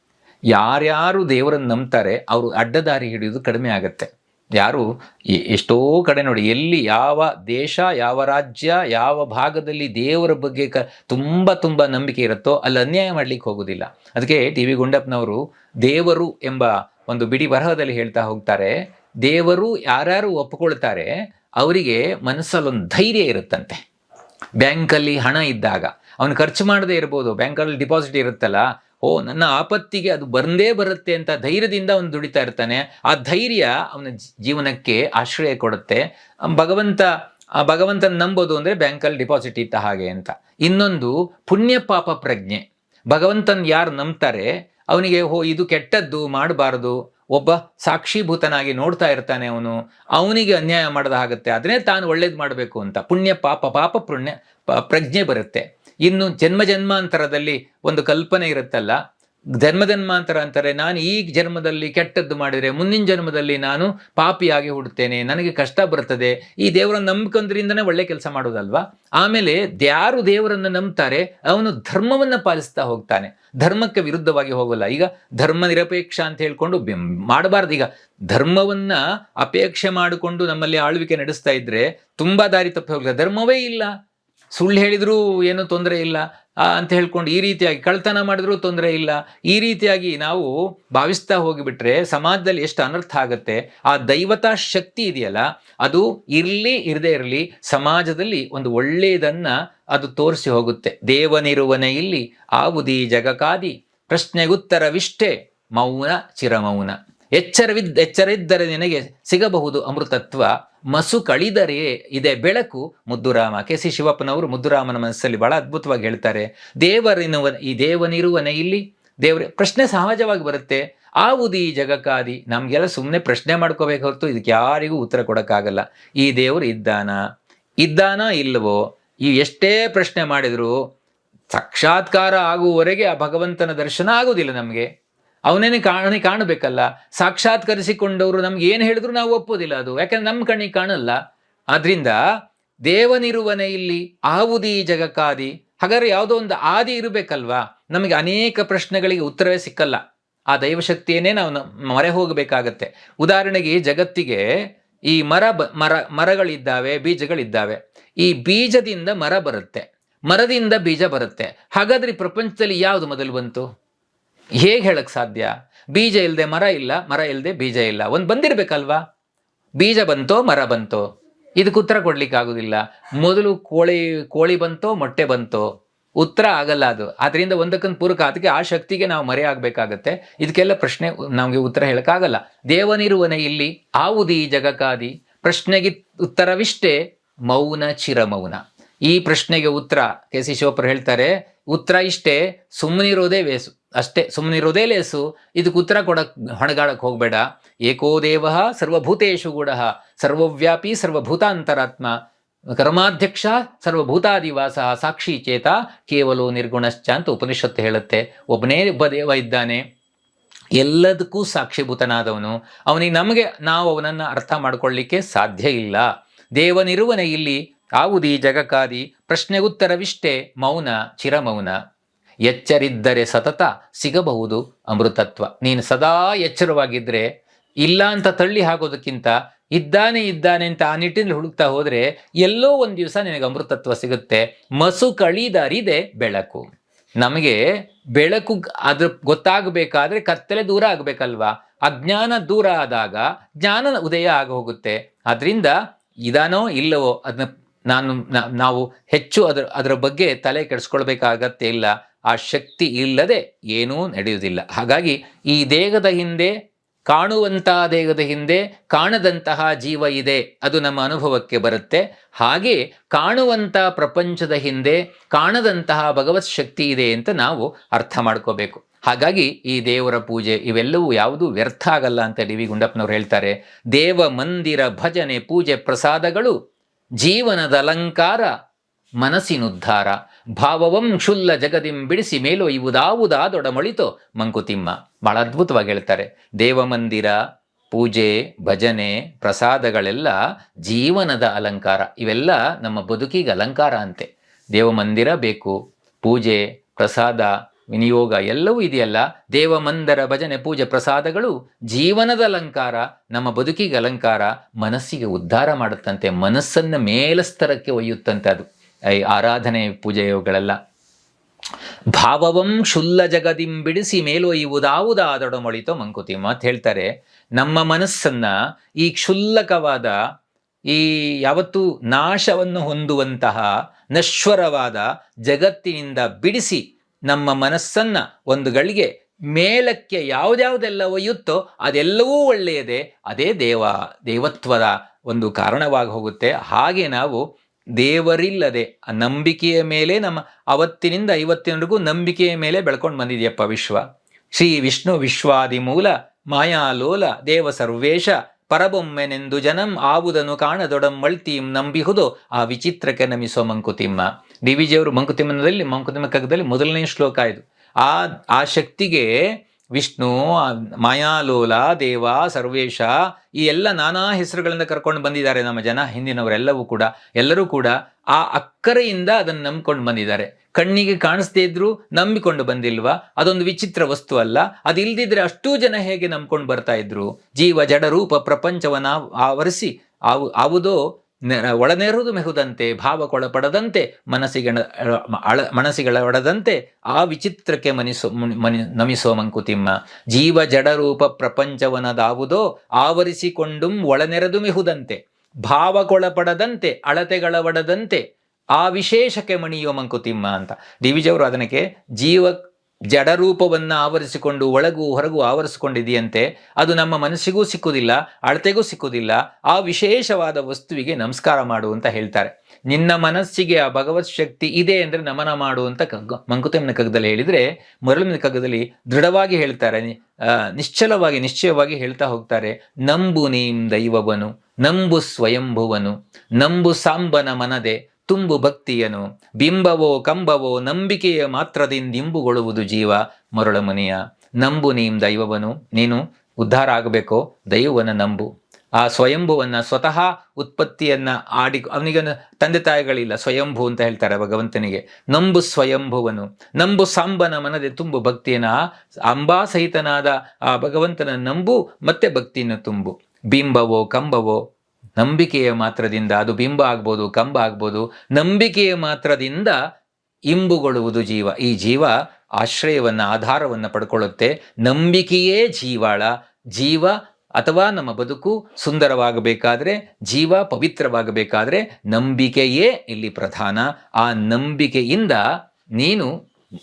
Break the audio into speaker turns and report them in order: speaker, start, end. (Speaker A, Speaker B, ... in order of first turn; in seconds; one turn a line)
Speaker A: 0.5-23.8
Speaker A: 24.6-37.1
Speaker A: 37.6-59.0
Speaker A: 59.6-83.9
Speaker A: 84.6-127.2
Speaker A: 127.8-130.8
Speaker A: 131.5-134.9
Speaker A: 135.5-141.2
Speaker A: 141.7-142.2
Speaker A: 142.9-150.0
Speaker A: 150.5-154.4
Speaker A: 155.1-163.7
Speaker A: 164.6-169.0
Speaker A: 169.8-171.1
Speaker A: 171.6-175.7
Speaker A: 176.2-202.1
Speaker A: 202.8-209.8
Speaker A: 210.8-221.8
Speaker A: 222.5-227.3
Speaker A: 227.8-236.7
Speaker A: 237.2-237.6
Speaker A: 238.2-245.7
Speaker A: 246.3-256.5
Speaker A: 257.1-276.6
Speaker A: 277.2-278.5
Speaker A: 279.2-287.4
Speaker A: 287.9-290.4
Speaker A: 290.9-308.6
Speaker A: 309.2-310.8
Speaker A: 312.1-320.1
Speaker A: 320.9-337.4
Speaker A: 338.0-344.0
Speaker A: 344.6-359.3
Speaker A: 359.9-398.2
Speaker A: 398.8-402.6
Speaker A: 403.1-448.8
Speaker A: 449.3-454.6
Speaker A: 455.2-459.8
Speaker A: 460.5-475.4
Speaker A: 476.0-476.3